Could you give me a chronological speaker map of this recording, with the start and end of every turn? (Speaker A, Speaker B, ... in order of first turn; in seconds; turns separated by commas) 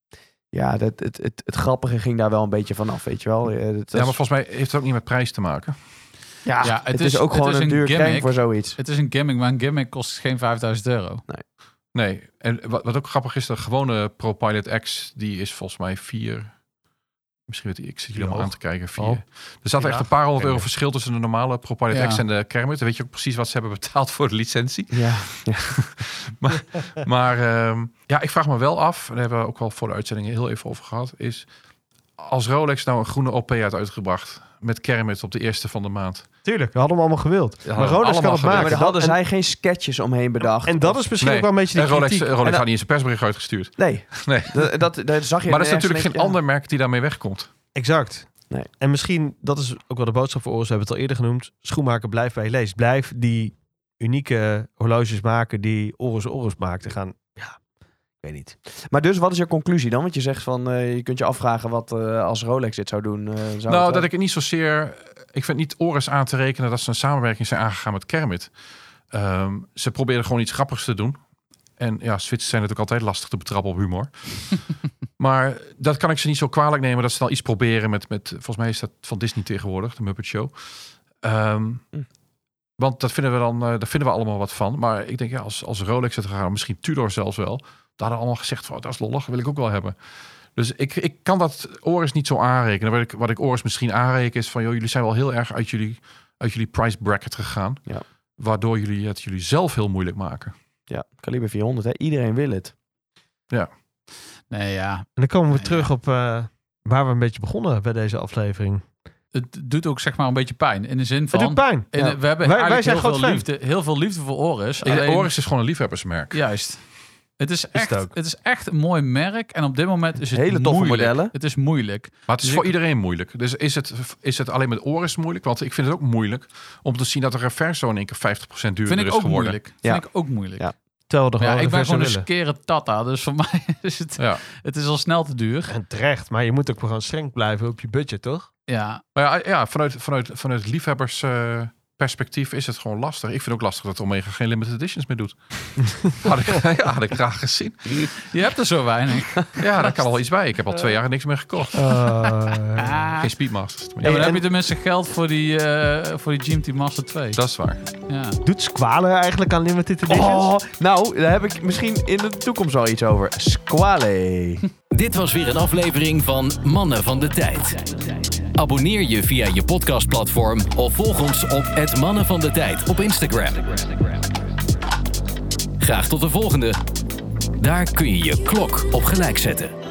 Speaker A: 0.5-4.2, Speaker B: 3.9-5.7, Speaker A: 6.4-8.8, Speaker C: 6.6-11.2, Speaker B: 11.9-16.6, Speaker B: 17.5-31.4, Speaker A: 18.2-19.2, Speaker D: 19.8-20.7, Speaker C: 21.9-22.2, Speaker A: 24.9-25.9, Speaker B: 32.2-36.3, Speaker D: 36.4-39.2, Speaker B: 37.6-38.8, Speaker A: 38.5-41.0, Speaker D: 40.6-42.3, Speaker B: 41.2-44.7, Speaker A: 43.8-46.4, Speaker B: 45.5-47.5, Speaker D: 47.7-57.6, Speaker D: 58.2-58.5, Speaker A: 58.9-64.1, Speaker B: 63.7-68.5, Speaker B: 69.1-71.2, Speaker B: 71.8-74.6, Speaker B: 75.2-80.5, Speaker B: 81.2-81.8, Speaker B: 82.8-89.9, Speaker B: 90.5-97.8, Speaker B: 98.4-100.5, Speaker A: 100.9-102.7, Speaker C: 104.5-105.9, Speaker D: 105.2-108.8, Speaker C: 109.3-115.4, Speaker D: 111.3-113.5, Speaker A: 111.9-112.2, Speaker B: 114.8-116.4, Speaker C: 116.3-122.7, Speaker D: 117.7-118.1, Speaker A: 120.3-121.3, Speaker B: 122.3-129.6, Speaker C: 128.8-130.7, Speaker A: 129.8-130.7, Speaker D: 131.1-132.3, Speaker C: 131.4-135.7, Speaker B: 134.2-134.4, Speaker D: 135.7-138.5, Speaker C: 138.7-139.0, Speaker B: 139.1-148.1, Speaker C: 148.0-149.6, Speaker B: 149.6-151.8, Speaker D: 151.7-153.0, Speaker C: 152.8-153.3, Speaker B: 153.2-154.3, Speaker D: 154.0-154.4, Speaker C: 154.0-157.4, Speaker B: 157.3-157.8, Speaker C: 158.1-158.4, Speaker D: 158.4-160.4, Speaker A: 160.1-164.6, Speaker E: 164.9-174.2, Speaker E: 175.8-176.8, Speaker E: 177.6-179.7